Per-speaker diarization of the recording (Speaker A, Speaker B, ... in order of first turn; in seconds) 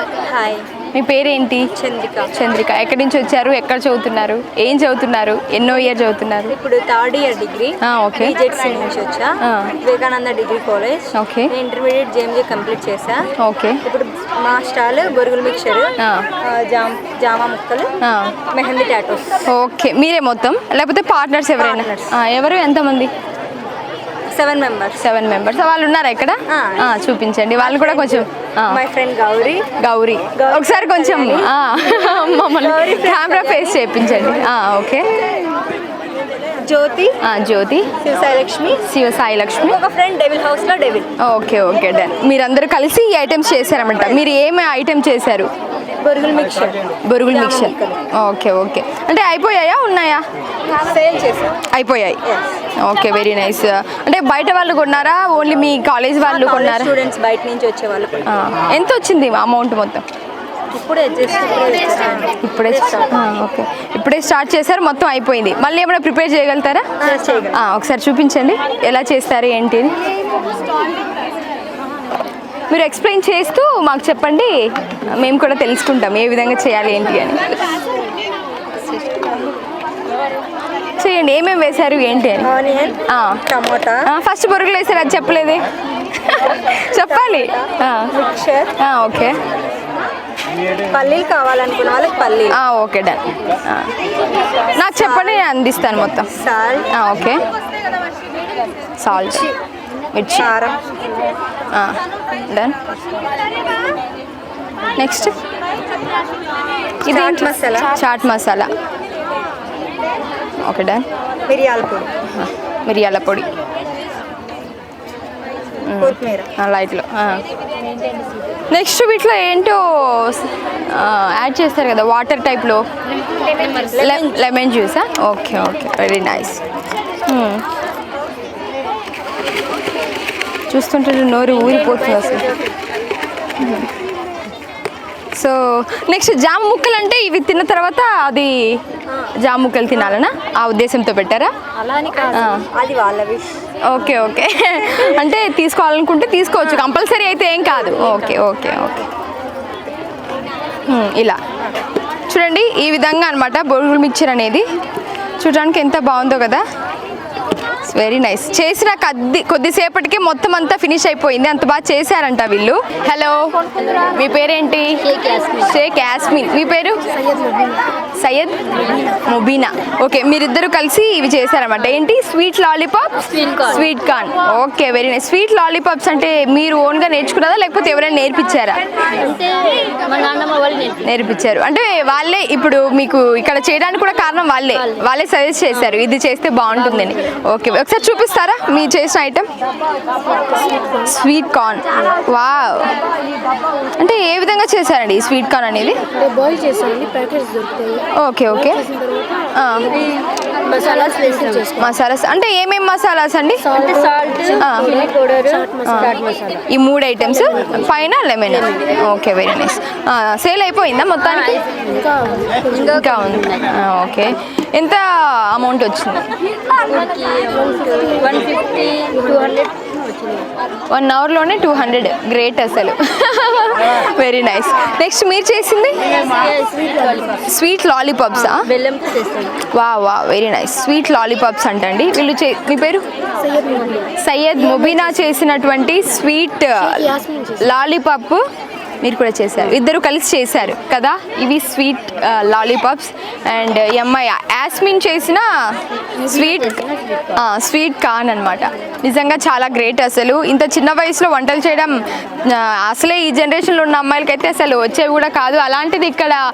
Speaker A: 0.2-0.7, 1.7-2.3, 6.5-13.3, 13.8-17.9, 18.5-19.4, 21.6-22.2, 24.3-25.1, 26.5-26.9, 27.6-29.7, 30.4-34.4, 36.6-37.2, 38.0-38.8, 39.6-41.1, 46.0-48.0, 50.7-51.6, 52.2-52.6, 56.2-58.2, 60.7-63.3, 67.0-67.6, 78.9-79.2, 82.4-84.0, 86.9-88.8, 90.9-92.6, 95.0-95.5, 96.3-96.9, 99.2-99.5, 100.4-100.8, 107.0-108.0, 111.5-112.1, 116.0-116.5, 123.8-124.5, 131.6-132.8, 139.1-139.3, 141.8-143.6, 146.6-146.9, 148.0-148.5, 151.6-151.8, 200.7-201.7, 203.7-206.4, 211.7-213.6, 216.7-220.4, 226.4-226.8, 228.3-229.5
Speaker B: 0.9-1.7, 2.3-6.5, 7.8-8.3, 9.4-9.8, 11.1-11.5, 13.4-13.8, 16.0-16.3, 18.0-18.4, 19.5-23.1, 25.0-28.8, 29.8-35.1, 37.2-37.9, 38.8-39.8, 41.2-45.5, 47.1-50.2, 51.7-52.2, 52.8-56.9, 58.3-60.0, 62.4-66.9, 67.5-69.9, 72.7-74.5, 75.1-77.7, 81.0-82.5, 83.1-83.4, 84.1-88.1, 88.8-89.4, 92.5-93.9, 94.8-96.3, 96.9-97.4, 99.0-99.5, 100.1-100.5, 101.7-102.0, 102.5-102.8, 105.0-105.4, 107.1-108.7, 110.6-111.0, 112.2-113.5, 115.8-117.4, 118.7-122.8, 123.9-126.6, 127.2-127.6, 130.7-132.5, 133.6-133.9, 135.3-141.5, 142.3-142.7, 143.8-149.1, 150.9-151.4, 152.3-154.7, 155.4-156.6, 157.8-165.1, 165.6-167.0, 168.2-178.8, 181.0-189.5, 191.0-192.9, 194.0-196.0, 198.1-198.9, 199.6-200.0, 201.8-203.7, 204.6-204.9, 205.8-206.2, 206.7-211.7, 212.8-216.2, 220.9-226.1, 227.4-228.7, 229.6-233.1, 234.2-238.4, 239.0-245.5, 246.2-256.4
Speaker C: 165.1-165.8, 173.3-173.8, 179.2-181.1, 196.1-198.0, 200.7-201.9, 203.7-206.6, 211.5-213.5, 226.1-227.4, 228.7-229.5, 233.4-234.1, 237.1-237.6, 246.8-247.3